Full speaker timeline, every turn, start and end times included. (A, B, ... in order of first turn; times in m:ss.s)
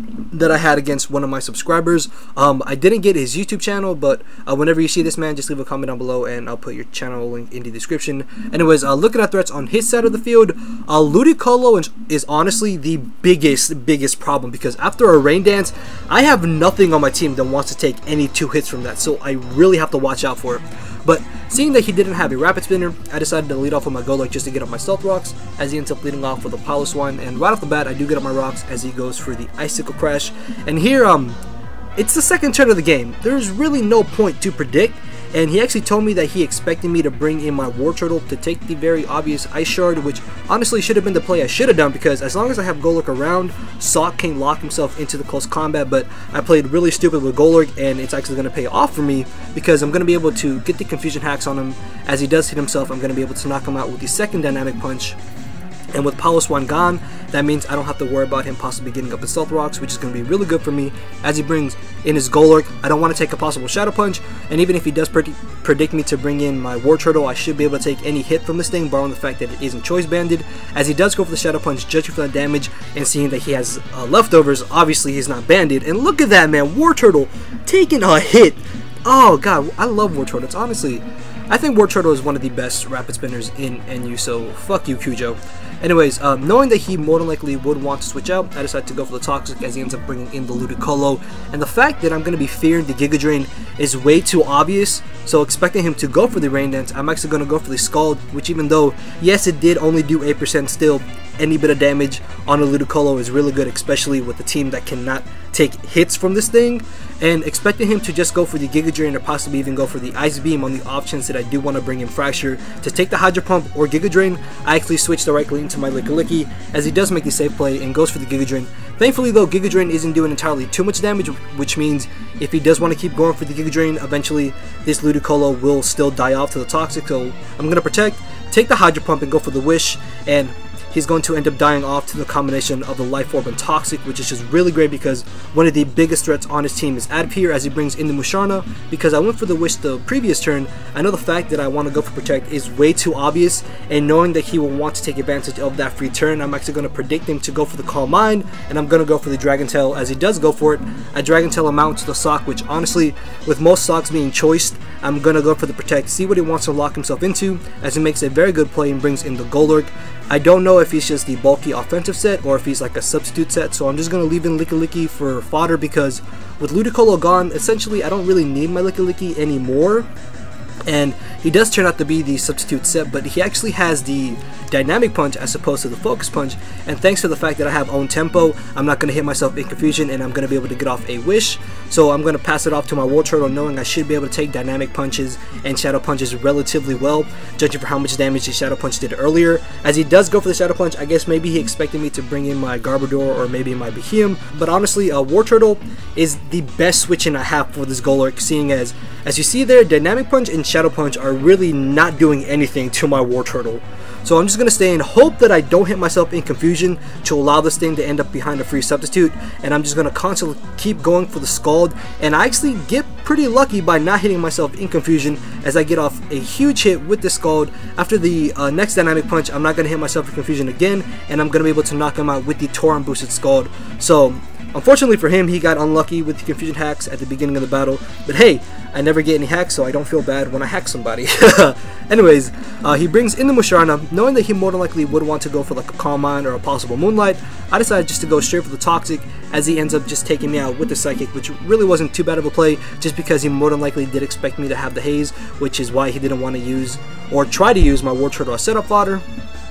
0:00.3-0:31.4 A
0:32.0-0:55.2 A
0:55.9-2:50.1 A
2:50.9-4:09.2 A